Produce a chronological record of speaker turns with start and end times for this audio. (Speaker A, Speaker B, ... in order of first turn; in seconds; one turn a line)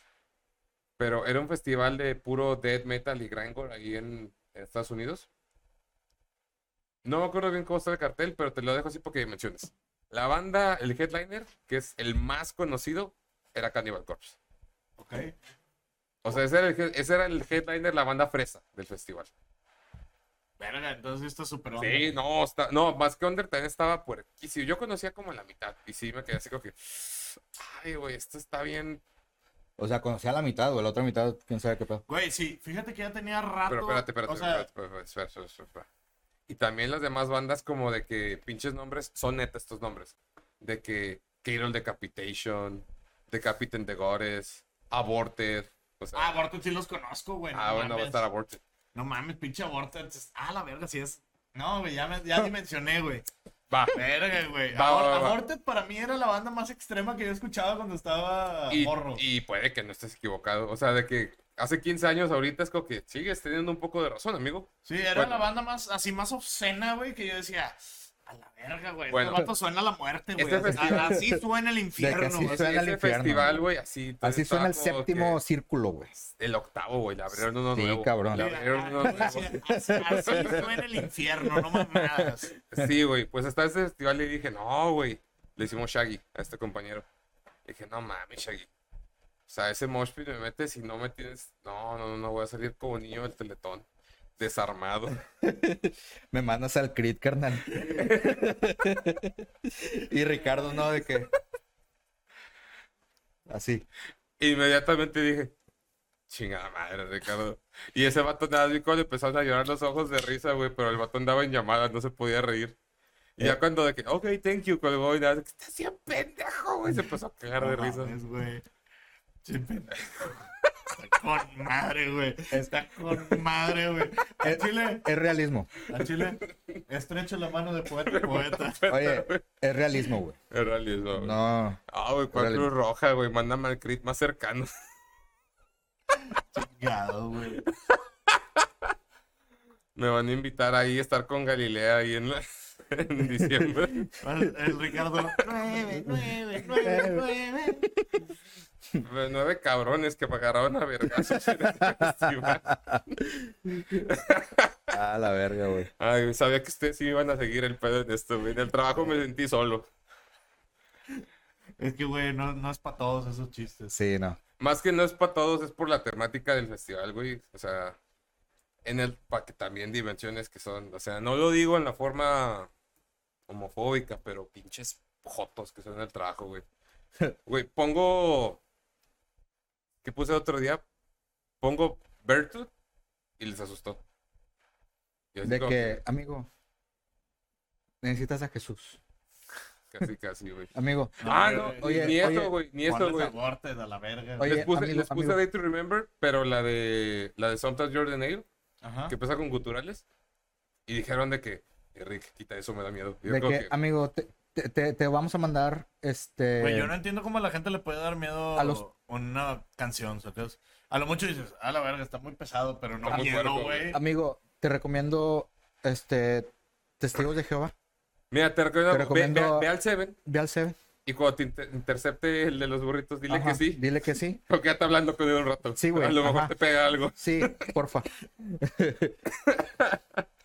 Speaker A: 1.0-5.3
Speaker A: 7.0-14.3
Speaker B: 15.0-15.3
Speaker A: 16.2-19.3
Speaker B: 20.6-22.1
Speaker A: 21.8-29.0
Speaker C: 29.8-32.0
Speaker B: 32.1-34.6
Speaker A: 33.7-35.9
Speaker A: 36.5-46.3
Speaker B: 46.1-48.2
Speaker A: 47.5-48.6
Speaker B: 48.9-53.2
Speaker A: 53.7-54.0
Speaker B: 53.9-59.2
Speaker A: 54.7-55.4
Speaker A: 58.7-65.4
Speaker B: 64.8-72.6
Speaker A: 69.1-69.5
Speaker A: 70.4-71.2
Speaker C: 70.7-71.4
Speaker C: 72.0-73.7
Speaker A: 72.4-75.4
Speaker C: 74.2-76.1
Speaker A: 76.1-80.7
Speaker C: 77.3-78.5
Speaker B: 78.3-82.5
Speaker C: 79.0-80.8
Speaker C: 81.5-82.8
Speaker A: 82.7-87.0
Speaker A: 87.6-88.7
Speaker A: 89.5-93.8
Speaker A: 94.4-95.2
Speaker C: 95.4-101.3
Speaker A: 97.8-98.4
Speaker C: 103.5-103.8
Speaker A: 104.4-105.5
Speaker A: 106.3-112.8
Speaker A: 113.4-118.1
Speaker B: 117.6-118.6
Speaker B: 119.4-120.4
Speaker B: 120.9-125.1
Speaker C: 124.4-125.7
Speaker B: 125.9-128.9
Speaker A: 126.1-126.8
Speaker A: 128.0-129.4
Speaker C: 128.9-130.4
Speaker A: 130.5-131.4
Speaker C: 131.1-131.8
Speaker A: 131.9-134.7
Speaker C: 132.3-132.7
Speaker B: 136.3-137.7
Speaker A: 137.7-138.7
Speaker A: 139.9-144.1
Speaker B: 144.2-147.9
Speaker C: 146.8-147.2
Speaker C: 147.9-148.2
Speaker A: 149.0-153.3
Speaker C: 151.1-153.0
Speaker A: 153.9-154.9
Speaker C: 154.9-155.9
Speaker A: 156.0-159.9
Speaker B: 161.8-163.9
Speaker C: 163.9-164.4
Speaker A: 164.6-167.9
Speaker A: 168.8-172.7
Speaker A: 173.5-176.6
Speaker A: 177.4-178.6
Speaker A: 180.0-180.8
Speaker A: 181.6-182.7
Speaker A: 183.4-184.0
Speaker A: 185.3-186.0
Speaker C: 185.4-186.5
Speaker C: 188.0-189.0
Speaker A: 189.9-193.3
Speaker C: 190.7-192.5
Speaker B: 191.2-194.7
Speaker C: 194.4-195.4
Speaker A: 194.4-198.4
Speaker B: 198.8-199.1
Speaker A: 199.1-200.0
Speaker A: 200.9-203.7
Speaker C: 203.2-206.9
Speaker B: 206.6-214.0
Speaker C: 208.6-208.8
Speaker A: 213.0-213.9
Speaker C: 213.9-217.7
Speaker A: 218.3-220.2
Speaker C: 218.9-219.7
Speaker C: 220.2-220.8
Speaker A: 221.1-223.8
Speaker C: 223.3-224.4
Speaker A: 224.5-227.7
Speaker C: 225.8-226.5
Speaker C: 227.2-229.2
Speaker A: 229.3-230.2